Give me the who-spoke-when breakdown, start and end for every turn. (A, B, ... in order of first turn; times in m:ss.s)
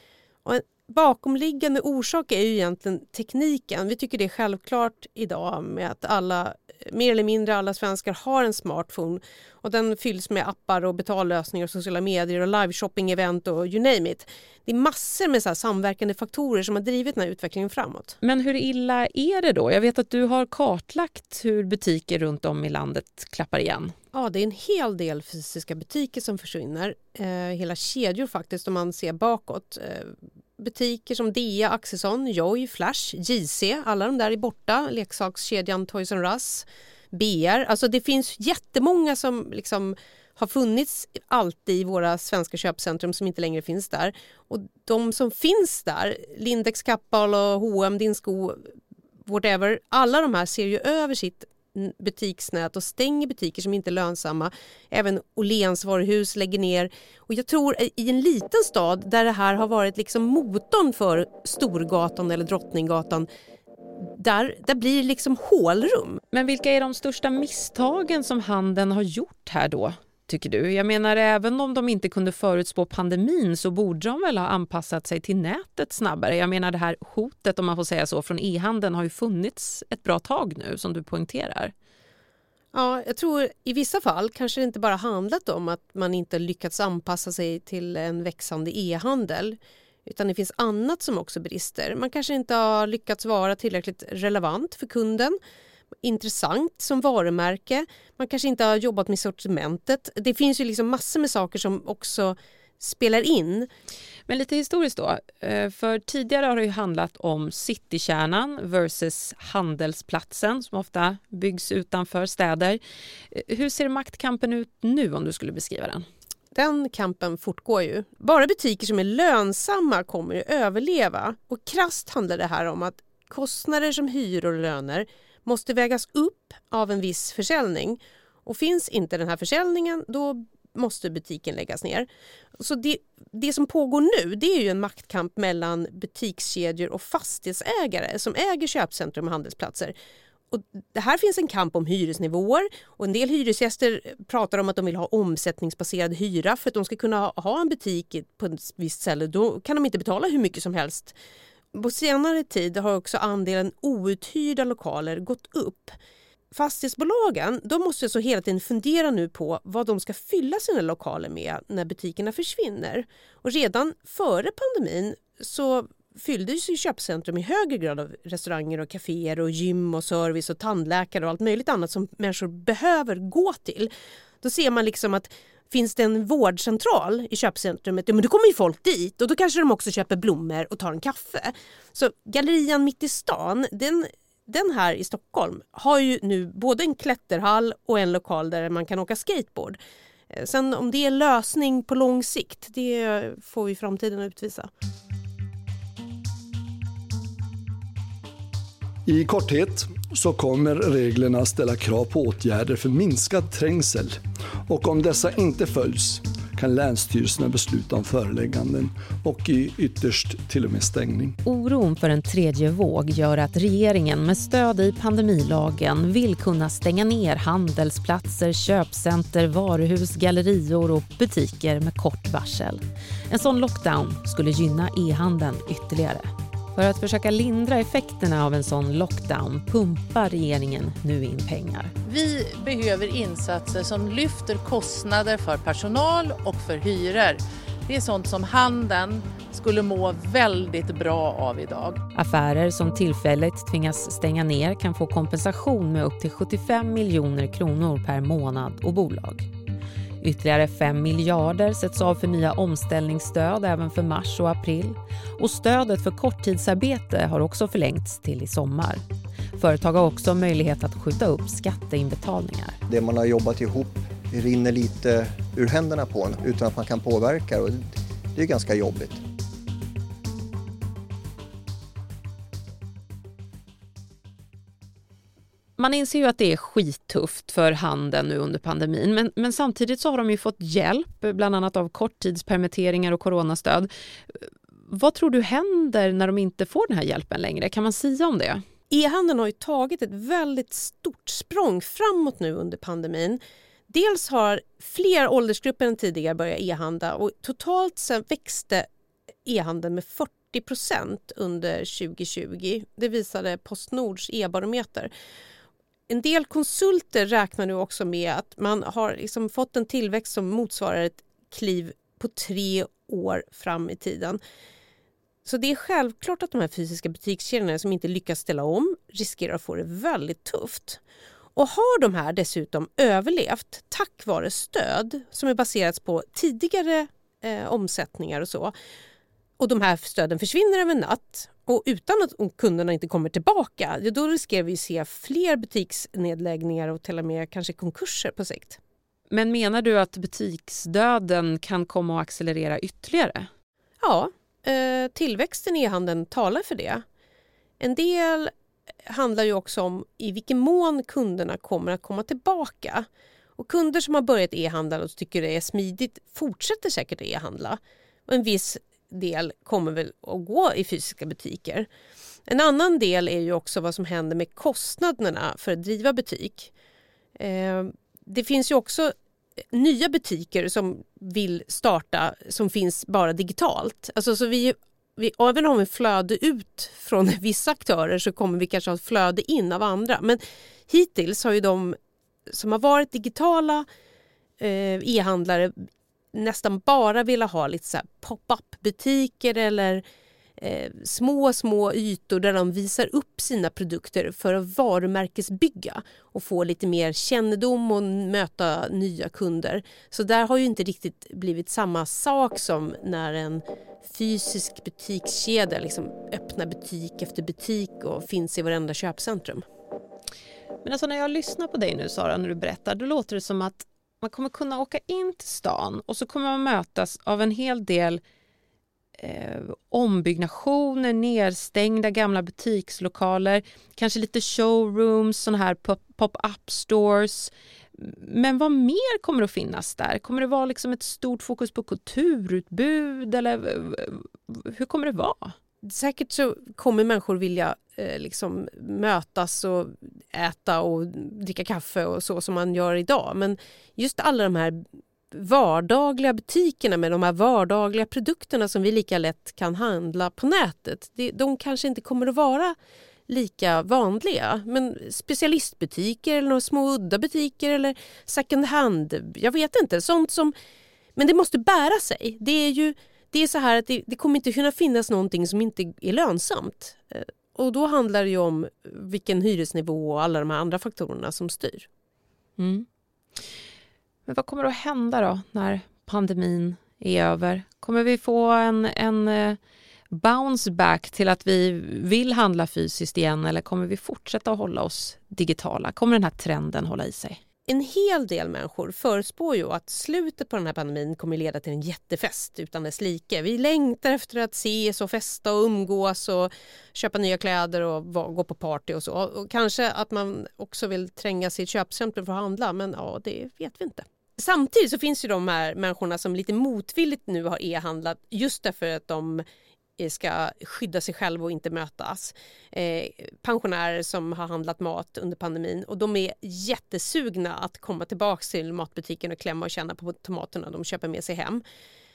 0:00.4-0:18.2 A
0:18.2-0:23.9 B
0:24.1-0:48.7 A
0:49.3-1:03.3 A
1:04.0-1:06.2 A
1:06.3-1:21.7 B
1:22.7-1:35.4 A
1:36.0-1:43.7 A
1:44.3-1:56.0 B
1:56.5-2:12.1 A
2:12.6-2:20.0 A
2:20.5-2:31.2 A
2:31.7-2:36.0 A
2:36.5-2:53.9 A
2:54.4-3:09.8 A
3:10.3-3:14.7 A
3:19.1-3:31.4 C
3:31.4-3:51.9 B
3:52.0-4:02.0 D
4:02.2-4:09.5 B
4:10.2-4:19.0 B
4:19.6-4:22.8 B
4:22.9-4:29.2 E
4:35.8-4:48.6 B
4:48.9-4:58.9 A
4:59.4-5:05.1 A
5:06.1-5:14.4 A
5:15.4-5:21.0 A
5:21.6-5:28.7 A
5:29.6-5:38.8 A
5:39.3-5:43.5 B
5:44.0-5:47.0 A
5:47.8-5:48.5 A
5:49.1-6:01.9 A
6:02.5-6:06.7 A
6:07.4-6:09.1 A
6:09.7-6:22.0 A
6:22.5-6:23.8 A
6:24.6-6:25.7 A
6:26.3-6:30.0 A
6:30.6-6:49.6 A
6:50.8-6:58.2 B
6:59.2-7:15.6 B
7:15.8-7:32.8 A
7:33.3-7:40.5 A
7:41.2-7:51.9 A
7:52.6-7:52.8 B
7:54.3-7:59.6 B
8:00.1-8:07.4 B
8:07.7-8:29.4 A
8:30.0-8:41.6 A